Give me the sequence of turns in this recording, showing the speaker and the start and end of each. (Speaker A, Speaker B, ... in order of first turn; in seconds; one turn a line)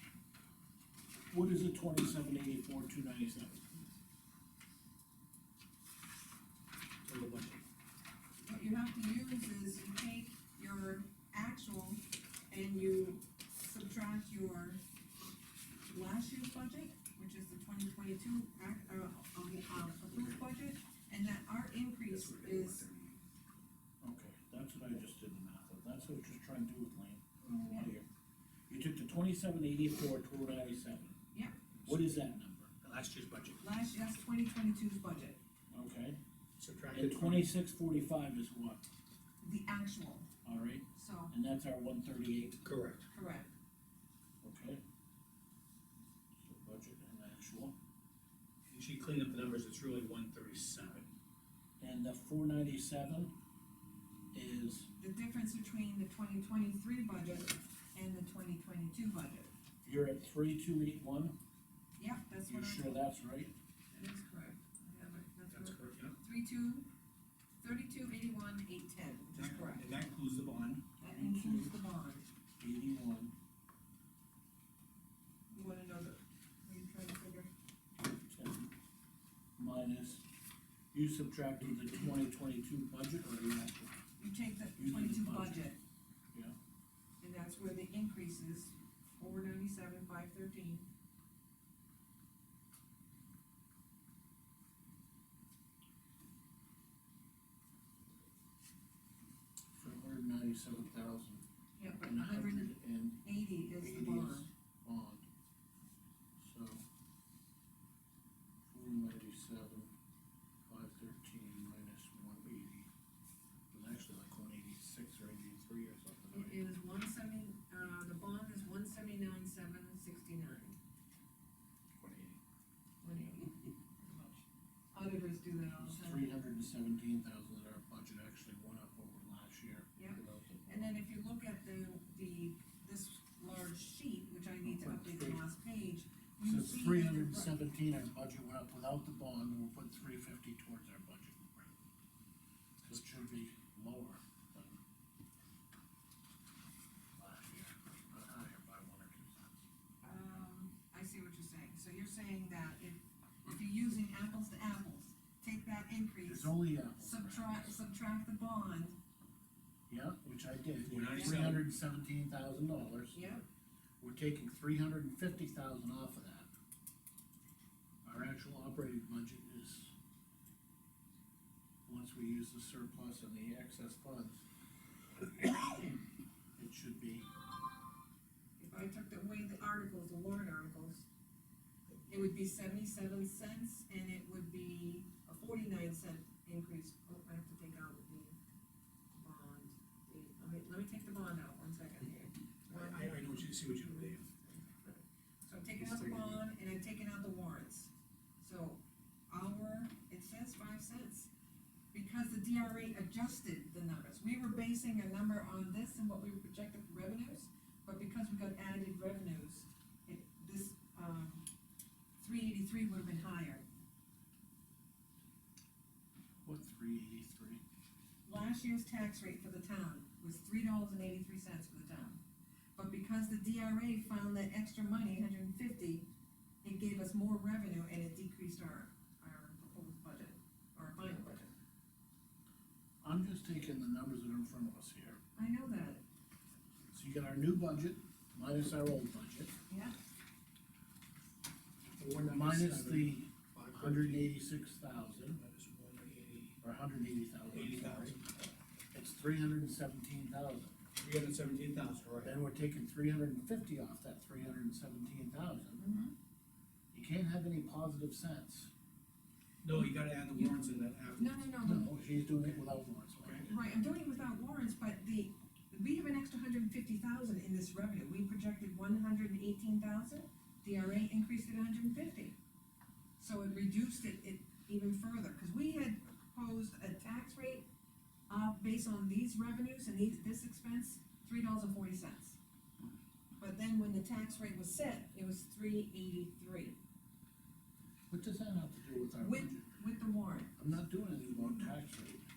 Speaker A: 1.3-3.7
Speaker B: 7.0-7.6
Speaker C: 8.4-14.8
Speaker C: 15.9-22.9
Speaker A: 24.0-28.1
Speaker C: 27.7-27.9
Speaker A: 28.7-31.1
Speaker C: 31.3-31.6
Speaker A: 31.9-32.7
Speaker B: 32.8-33.6
Speaker C: 33.6-35.4
Speaker A: 35.7-36.2
Speaker B: 36.6-37.5
Speaker A: 36.9-38.8
Speaker C: 39.4-40.3
Speaker A: 40.4-42.6
Speaker C: 40.9-41.3
Speaker B: 42.6-43.1
Speaker C: 43.1-43.5
Speaker A: 44.4-44.8
Speaker A: 46.4-47.8
Speaker B: 48.7-51.1
Speaker A: 51.8-53.3
Speaker A: 54.3-54.9
Speaker C: 55.0-59.5
Speaker A: 59.8-61.4
Speaker C: 62.0-63.0
Speaker A: 62.5-63.5
Speaker C: 63.9-66.9
Speaker B: 65.5-66.2
Speaker C: 67.6-69.9
Speaker B: 69.3-70.9
Speaker C: 71.0-72.2
Speaker A: 71.1-71.7
Speaker A: 72.6-73.3
Speaker C: 75.5-77.5
Speaker A: 78.2-78.7
Speaker A: 79.6-80.3
Speaker A: 80.9-84.0
Speaker C: 84.2-85.8
Speaker A: 84.8-85.7
Speaker C: 87.2-90.9
Speaker A: 99.7-101.4
Speaker C: 101.8-104.5
Speaker A: 102.0-105.3
Speaker A: 106.4-106.8
Speaker A: 108.7-109.9
Speaker A: 110.7-112.9
Speaker A: 113.7-116.6
Speaker C: 116.3-120.8
Speaker A: 122.0-122.4
Speaker C: 123.0-126.3
Speaker A: 125.7-130.6
Speaker C: 129.9-137.6
Speaker A: 134.6-135.4
Speaker A: 136.4-141.8
Speaker A: 142.8-144.8
Speaker A: 147.2-149.5
Speaker C: 150.0-159.0
Speaker A: 156.2-157.8
Speaker A: 159.9-163.2
Speaker B: 160.8-161.7
Speaker C: 163.1-163.4
Speaker A: 164.0-166.5
Speaker A: 168.0-169.9
Speaker A: 171.9-174.4
Speaker A: 175.4-176.0
Speaker A: 176.6-177.3
Speaker C: 178.6-181.1
Speaker C: 182.1-188.4
Speaker C: 189.1-193.2
Speaker B: 192.7-194.3
Speaker C: 194.4-201.3
Speaker C: 201.9-211.4
Speaker C: 212.2-213.7
Speaker A: 216.4-217.6
Speaker C: 218.3-222.2
Speaker C: 222.8-226.1
Speaker C: 226.6-231.5
Speaker A: 233.0-235.2
Speaker C: 235.4-236.0
Speaker A: 236.9-239.6
Speaker C: 239.7-240.0
Speaker B: 242.0-244.4
Speaker A: 242.2-245.4
Speaker B: 245.3-246.6
Speaker A: 246.6-248.2
Speaker B: 247.5-248.3
Speaker A: 248.9-250.8
Speaker B: 251.0-252.4
Speaker A: 252.2-255.9
Speaker C: 255.8-256.1
Speaker A: 256.9-258.7
Speaker B: 259.6-261.4
Speaker C: 261.2-261.9
Speaker A: 261.6-263.5
Speaker C: 263.4-272.4
Speaker C: 273.2-277.7
Speaker C: 278.3-282.4
Speaker C: 283.4-286.8
Speaker A: 288.1-289.8
Speaker C: 289.2-290.5
Speaker A: 290.6-292.2